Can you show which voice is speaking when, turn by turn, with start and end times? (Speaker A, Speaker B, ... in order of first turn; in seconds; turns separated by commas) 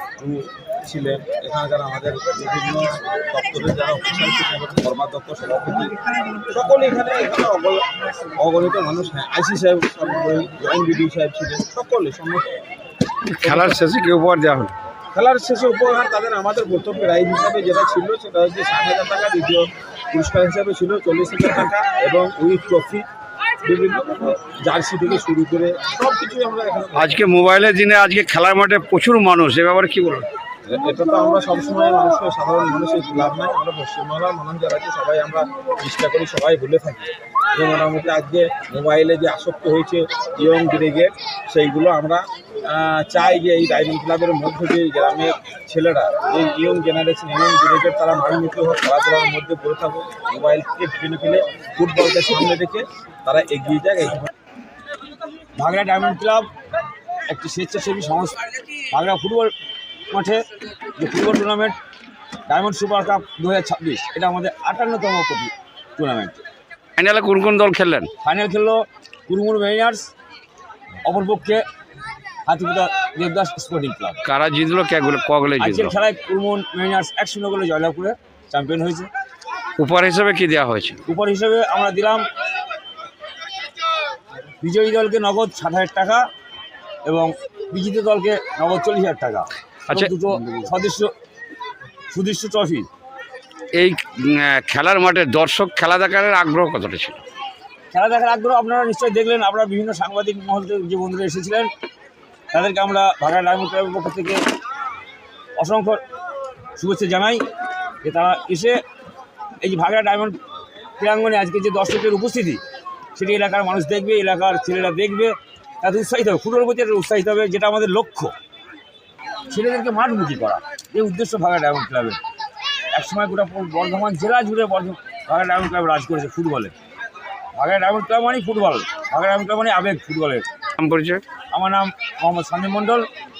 Speaker A: 0.2-5.9, Speaker A: 6.5-7.8, Speaker A: 8.4-12.5, Speaker B: 13.3-14.7, Speaker A: 15.1-23.0, Speaker A: 23.6-27.2, Speaker B: 27.0-30.3, Speaker A: 30.7-54.2, Speaker C: 55.6-56.5, Speaker C: 57.3-59.5, Speaker C: 60.1-60.4, Speaker C: 61.0-61.8, Speaker C: 62.5-66.4, Speaker B: 67.0-68.1, Speaker C: 68.2-70.1, Speaker C: 71.0-71.6, Speaker C: 72.5-74.2, Speaker B: 74.2-75.9, Speaker C: 75.6-79.1, Speaker B: 79.8-81.0, Speaker C: 81.1-82.2, Speaker C: 84.6-86.2, Speaker C: 87.0-91.1, Speaker B: 89.9-90.7, Speaker C: 92.1-92.9, Speaker B: 93.8-97.2, Speaker C: 97.9-101.7, Speaker C: 102.5-104.4, Speaker C: 105.6-106.0, Speaker C: 106.8-107.4, Speaker C: 108.0-108.8, Speaker C: 109.6-110.4, Speaker C: 111.0-112.6, Speaker C: 113.2-118.3, Speaker C: 119.5-122.2, Speaker C: 122.9-126.7, Speaker C: 127.5-130.5, Speaker B: 130.8-131.2, Speaker C: 131.5-133.1